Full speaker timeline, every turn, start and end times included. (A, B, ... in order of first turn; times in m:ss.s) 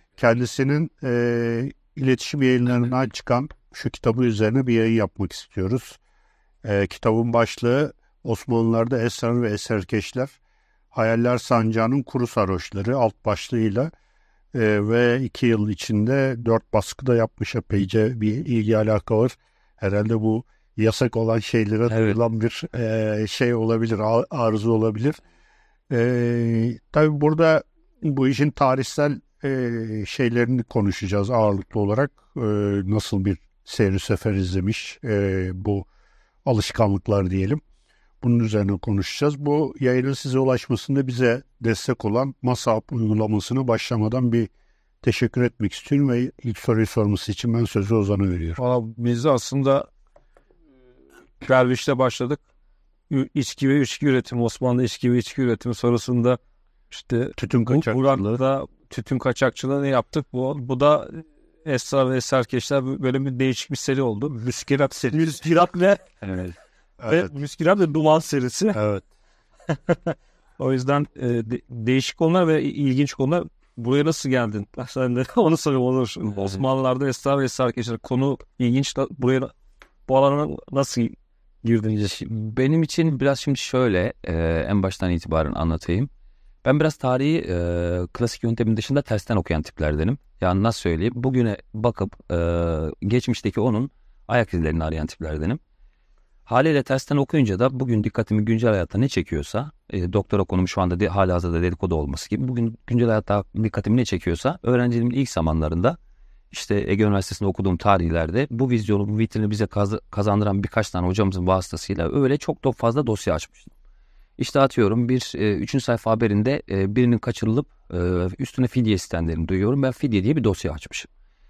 0:00.2-0:06.0 A
0:06.6-0:10.4 A
0:10.9-0:13.9 A
0:14.5-0:25.2 A
0:21.9-0:22.2 B
0:25.9-0:35.8 A
0:36.4-0:37.6 A
0:38.2-0:44.5 A
0:45.0-0:48.6 A
0:48.6-0:49.9 C
0:51.4-0:52.4 C
0:53.1-0:56.4 C
0:56.9-1:04.3 C
0:57.4-0:58.4 A
1:04.3-1:05.4 A
1:05.1-1:06.5 C
1:07.0-1:07.3 A
1:07.0-1:08.8 C
1:08.7-1:09.0 A
1:10.6-1:19.5 C
1:20.1-1:22.1 C
1:22.0-1:26.1 B
1:26.6-1:35.6 B
1:36.4-1:46.0 B
1:46.5-1:53.7 B
1:54.4-2:01.1 B